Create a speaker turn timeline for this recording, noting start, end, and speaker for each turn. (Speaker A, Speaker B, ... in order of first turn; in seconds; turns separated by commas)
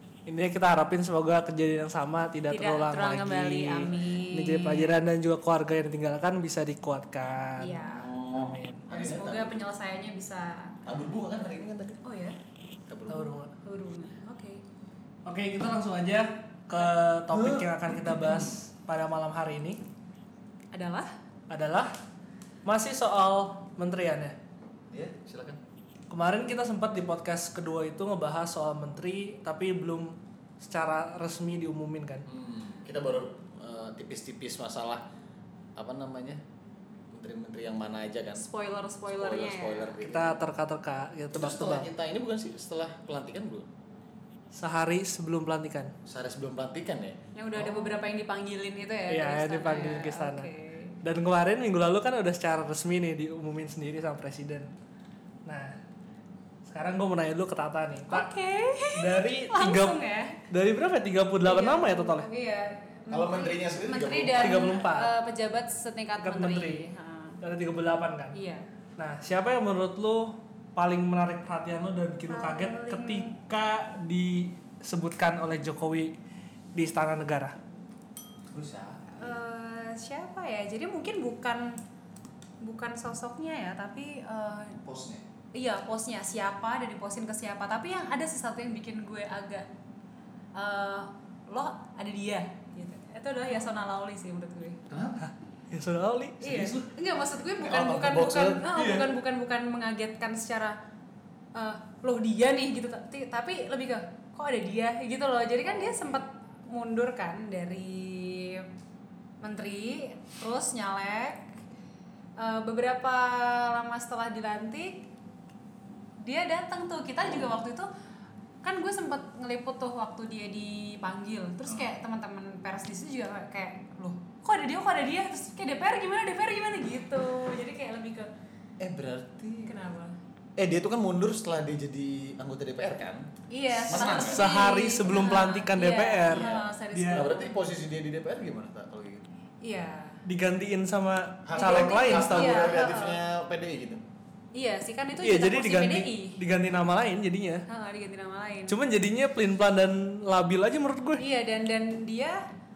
Speaker A: 0.3-8.8, Speaker B: 2.5-5.0, Speaker B: 7.6-8.1, Speaker C: 7.8-9.6, Speaker B: 8.9-10.8, Speaker C: 10.8-12.0, Speaker B: 12.0-12.4, Speaker C: 12.9-13.3, Speaker A: 13.1-13.5, Speaker B: 13.2-14.6, Speaker A: 15.2-19.8, Speaker C: 17.3-18.5, Speaker B: 20.7-21.1, Speaker A: 21.5-21.9, Speaker A: 22.6-24.4, Speaker C: 24.9-25.6, Speaker A: 26.1-32.2, Speaker C: 32.2-35.0, Speaker C: 35.8-36.4, Speaker C: 37.1-38.5, Speaker B: 38.3-40.0, Speaker C: 39.0-40.4, Speaker A: 40.0-41.9, Speaker C: 41.3-43.7, Speaker A: 44.5-45.9, Speaker C: 46.0-48.0, Speaker B: 47.3-51.0, Speaker A: 49.1-50.5, Speaker A: 51.0-54.7, Speaker A: 55.5-55.8, Speaker A: 56.7-58.3, Speaker B: 58.1-60.4, Speaker A: 58.9-60.0, Speaker A: 60.5-62.3, Speaker B: 61.4-67.4, Speaker C: 63.1-64.8, Speaker A: 64.4-65.1, Speaker A: 66.2-66.8, Speaker A: 67.4-68.3, Speaker B: 68.3-68.6, Speaker A: 69.0-76.1, Speaker B: 72.3-73.4, Speaker A: 76.7-77.5, Speaker C: 78.5-79.4, Speaker B: 79.1-81.8, Speaker B: 82.6-84.8, Speaker C: 84.8-85.2, Speaker B: 85.5-89.7, Speaker B: 90.5-94.8, Speaker C: 94.9-95.3, Speaker A: 95.2-96.5, Speaker B: 96.4-100.8, Speaker C: 96.4-96.9, Speaker C: 97.6-99.1, Speaker B: 101.5-108.7, Speaker B: 109.4-111.5, Speaker B: 112.4-115.1, Speaker B: 116.2-117.9, Speaker B: 118.6-128.3, Speaker C: 121.7-121.9, Speaker C: 128.8-129.8, Speaker B: 129.6-130.2, Speaker C: 130.6-133.3, Speaker B: 133.5-137.5, Speaker C: 133.9-134.5, Speaker A: 134.1-137.3, Speaker C: 136.3-139.2, Speaker B: 139.6-140.2, Speaker A: 140.2-142.7, Speaker C: 141.4-144.0, Speaker B: 141.5-143.2, Speaker B: 144.5-146.4, Speaker A: 145.2-147.6, Speaker B: 147.7-148.8, Speaker A: 148.7-151.2, Speaker B: 151.2-152.4